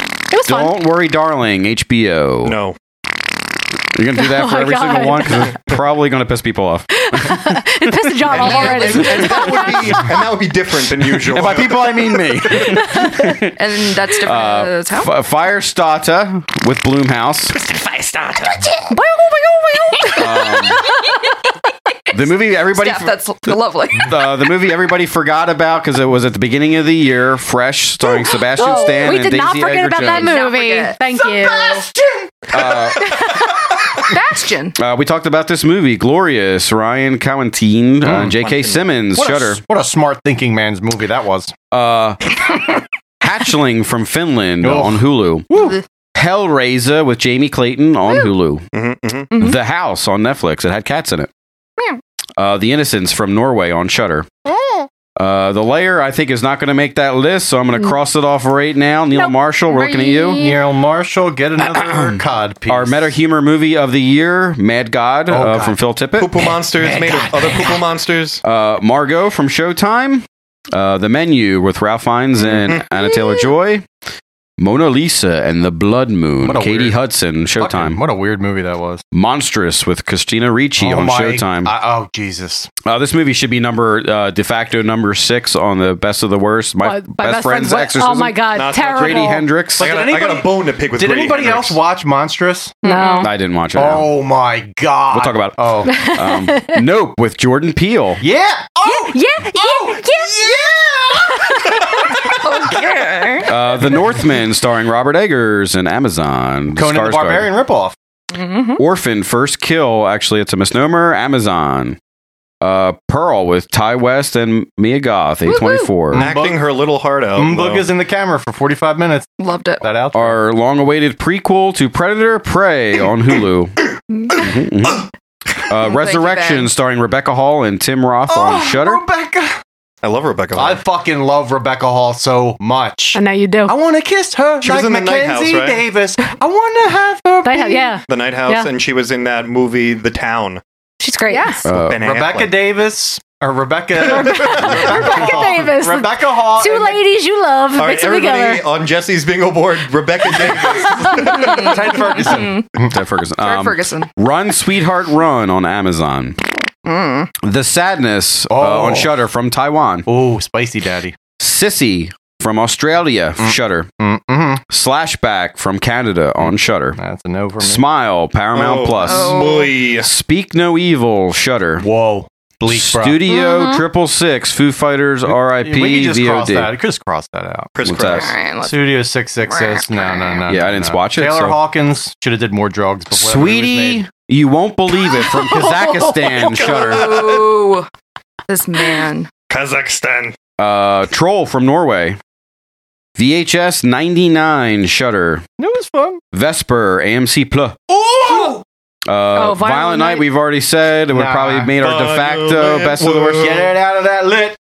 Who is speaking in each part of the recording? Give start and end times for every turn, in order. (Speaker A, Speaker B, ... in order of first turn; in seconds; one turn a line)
Speaker A: 0.3-0.8
Speaker B: 0.5-2.6
Speaker C: 2.4-2.8
Speaker B: 4.0-10.1
Speaker A: 4.2-5.6
Speaker A: 7.0-10.1
Speaker C: 8.3-11.9
Speaker B: 11.3-13.6
Speaker A: 12.7-13.2
Speaker D: 13.6-15.1
Speaker B: 14.2-17.9
Speaker A: 18.9-20.8
Speaker B: 20.2-20.9
Speaker B: 22.1-30.4
Speaker D: 22.8-24.1
Speaker A: 28.6-31.9
Speaker D: 30.0-31.0
Speaker E: 31.4-32.7
Speaker B: 32.5-33.3
Speaker D: 34.1-34.8
Speaker B: 34.8-39.6
Speaker E: 38.0-38.4
Speaker C: 38.2-38.9
Speaker E: 39.2-41.5
Speaker B: 41.7-42.2
Speaker B: 43.2-45.5
Speaker E: 44.6-45.8
Speaker D: 45.5-45.8
Speaker B: 46.1-48.6
Speaker C: 48.7-49.3
Speaker B: 49.4-51.3
Speaker B: 52.4-54.3
Speaker B: 55.2-60.5
Speaker A: 59.7-60.4
Speaker D: 59.8-60.5
Speaker E: 60.4-63.1
Speaker B: 61.6-66.3
Speaker E: 65.3-65.8
Speaker C: 66.2-68.4
Speaker E: 67.0-67.6
Speaker B: 68.4-73.8
Speaker C: 72.4-72.8
Speaker B: 74.6-78.0
Speaker E: 76.4-77.0
Speaker E: 77.6-79.0
Speaker B: 79.1-81.7
Speaker E: 80.8-82.7
Speaker B: 82.8-89.9
Speaker A: 86.8-89.5
Speaker C: 88.5-91.8
Speaker E: 89.8-92.8
Speaker D: 92.8-93.3
Speaker A: 92.8-93.3
Speaker B: 93.2-94.1
Speaker E: 93.8-96.1
Speaker B: 95.1-98.2
Speaker A: 95.9-96.8
Speaker E: 98.2-102.7
Speaker A: 98.8-100.5
Speaker D: 102.4-103.5
Speaker B: 103.5-107.5
Speaker E: 106.8-108.0
Speaker D: 108.3-108.8
Speaker B: 108.8-112.0
Speaker B: 112.6-116.3
Speaker D: 115.5-115.9
Speaker E: 116.1-116.7
Speaker C: 116.1-117.9
Speaker E: 117.3-120.4
Speaker D: 119.4-119.8
Speaker B: 120.1-125.1
Speaker B: 125.7-129.0
Speaker D: 125.8-126.7
Speaker E: 128.3-129.6
Speaker C: 130.0-130.8
Speaker E: 130.6-138.0
Speaker A: 133.1-133.8
Speaker C: 134.6-135.9
Speaker A: 137.4-138.7
Speaker C: 138.1-140.6
Speaker A: 141.0-141.6
Speaker D: 141.3-141.7
Speaker B: 141.6-142.0
Speaker C: 141.7-142.5
Speaker E: 142.0-147.0
Speaker A: 144.1-148.6
Speaker C: 144.4-145.2
Speaker C: 147.8-152.0
Speaker E: 151.1-153.0
Speaker D: 151.3-152.7
Speaker B: 152.9-156.4
Speaker D: 153.4-154.1
Speaker D: 156.8-157.3
Speaker B: 157.4-160.1
Speaker E: 158.5-159.1
Speaker E: 160.1-161.2
Speaker B: 161.4-163.9
Speaker E: 163.4-164.6
Speaker B: 164.7-167.0
Speaker E: 166.4-167.9
Speaker B: 167.6-169.4
Speaker C: 168.5-170.1
Speaker D: 169.0-169.7
Speaker B: 170.0-171.8
Speaker E: 171.8-173.3
Speaker B: 172.7-176.7
Speaker A: 173.3-173.8
Speaker E: 175.3-177.7
Speaker C: 177.8-178.3
Speaker B: 177.8-178.4
Speaker D: 178.1-180.4
Speaker E: 178.6-184.0
Speaker B: 180.5-181.6
Speaker B: 183.1-187.2
Speaker C: 186.4-187.4
Speaker D: 186.6-187.9
Speaker D: 188.5-189.3
Speaker C: 189.5-190.4
Speaker B: 190.6-192.2
Speaker B: 193.2-195.4
Speaker E: 195.6-196.2
Speaker B: 196.3-197.8
Speaker E: 197.9-198.6
Speaker B: 199.1-203.5
Speaker A: 199.3-200.3
Speaker E: 201.1-201.8
Speaker C: 201.8-203.7
Speaker E: 203.0-204.6